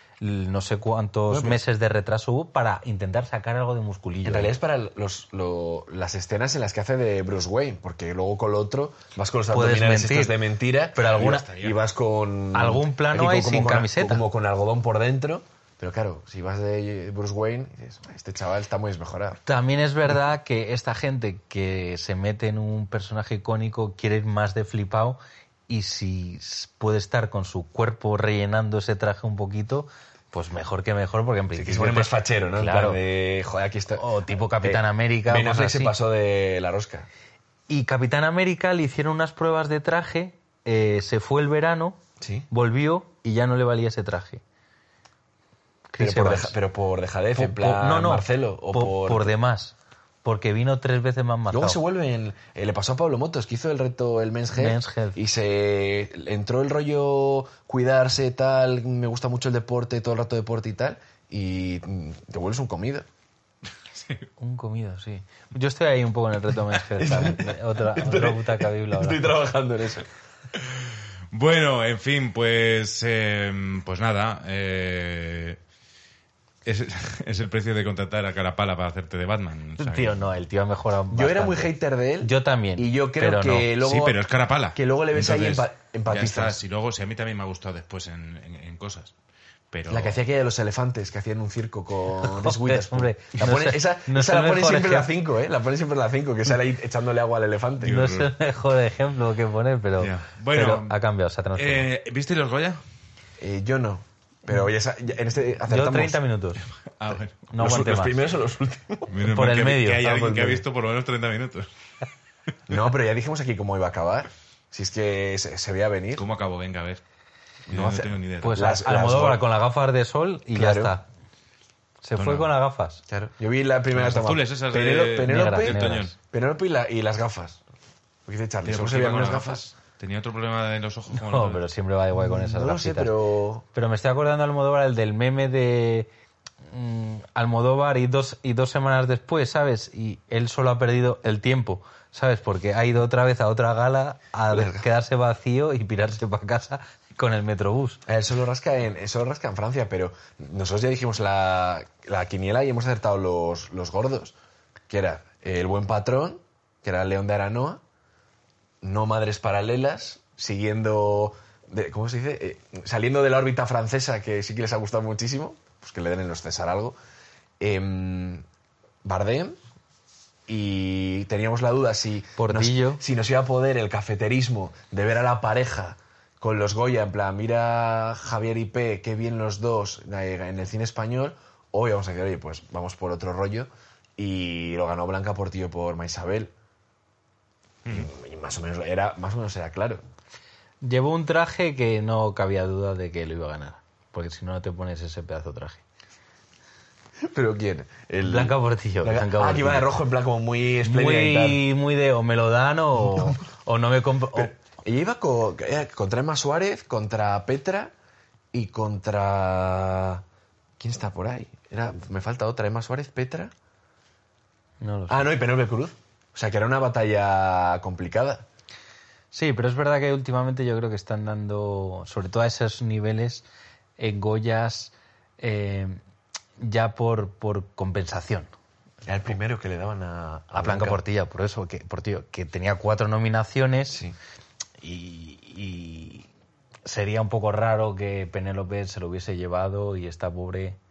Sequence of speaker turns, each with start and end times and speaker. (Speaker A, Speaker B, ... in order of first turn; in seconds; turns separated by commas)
Speaker A: 0.2-4.5, Speaker B: 1.3-1.6, Speaker B: 4.2-19.4, Speaker A: 9.5-10.4, Speaker A: 10.9-11.5, Speaker C: 11.1-11.8, Speaker A: 12.5-14.2, Speaker A: 19.5-33.0, Speaker B: 31.6-34.0, Speaker A: 34.0-35.9, Speaker B: 34.6-37.1, Speaker A: 37.7-42.0, Speaker B: 42.2-42.5, Speaker A: 42.5-44.4, Speaker A: 45.9-46.5, Speaker B: 46.0-49.3, Speaker A: 47.4-51.8, Speaker B: 51.5-63.1, Speaker A: 54.5-55.2, Speaker A: 64.4-69.3, Speaker B: 67.0-70.1, Speaker C: 70.7-75.6, Speaker C: 76.7-80.3, Speaker A: 79.8-83.7, Speaker B: 81.1-84.2, Speaker C: 83.8-89.1, Speaker B: 84.8-86.6, Speaker C: 89.7-90.2, Speaker B: 89.9-98.1, Speaker A: 92.2-95.1, Speaker A: 97.8-101.9, Speaker C: 97.8-98.3, Speaker C: 100.0-101.0, Speaker C: 101.5-102.8, Speaker B: 103.4-106.2, Speaker A: 105.7-106.6, Speaker C: 107.0-107.5, Speaker A: 107.5-108.2, Speaker B: 107.5-109.2, Speaker C: 109.1-111.7, Speaker A: 109.2-110.1, Speaker B: 110.0-110.7, Speaker B: 112.7-116.3, Speaker C: 116.2-117.0, Speaker C: 117.7-118.6, Speaker B: 117.7-119.4, Speaker A: 118.4-121.1, Speaker B: 120.5-121.0, Speaker A: 122.0-123.0, Speaker C: 122.2-122.5, Speaker B: 123.1-127.6, Speaker C: 123.9-126.2, Speaker A: 125.3-126.1, Speaker B: 128.3-129.7, Speaker C: 128.7-131.6, Speaker A: 131.1-133.1, Speaker B: 132.1-133.7, Speaker A: 133.7-136.1, Speaker A: 136.7-148.0, Speaker B: 144.5-144.9, Speaker B: 148.1-154.3, Speaker B: 154.9-157.8, Speaker B: 158.8-167.0, Speaker B: 167.6-168.4, Speaker B: 169.0-169.6, Speaker B: 170.5-186.5, Speaker A: 172.4-173.0, Speaker B: 187.9-190.0, Speaker A: 190.8-195.8, Speaker B: 197.2-201.6, Speaker A: 198.2-200.0, Speaker A: 200.8-204.5, Speaker B: 203.1-203.4, Speaker B: 204.3-207.9, Speaker B: 208.5-210.2, Speaker B: 210.8-213.5, Speaker A: 214.8-215.3, Speaker B: 215.1-218.5, Speaker A: 219.3-223.4, Speaker A: 224.0-226.0, Speaker A: 226.6-228.5, Speaker B: 229.1-231.0, Speaker A: 230.5-234.0, Speaker B: 233.9-234.2, Speaker A: 234.8-236.3, Speaker A: 236.8-240.8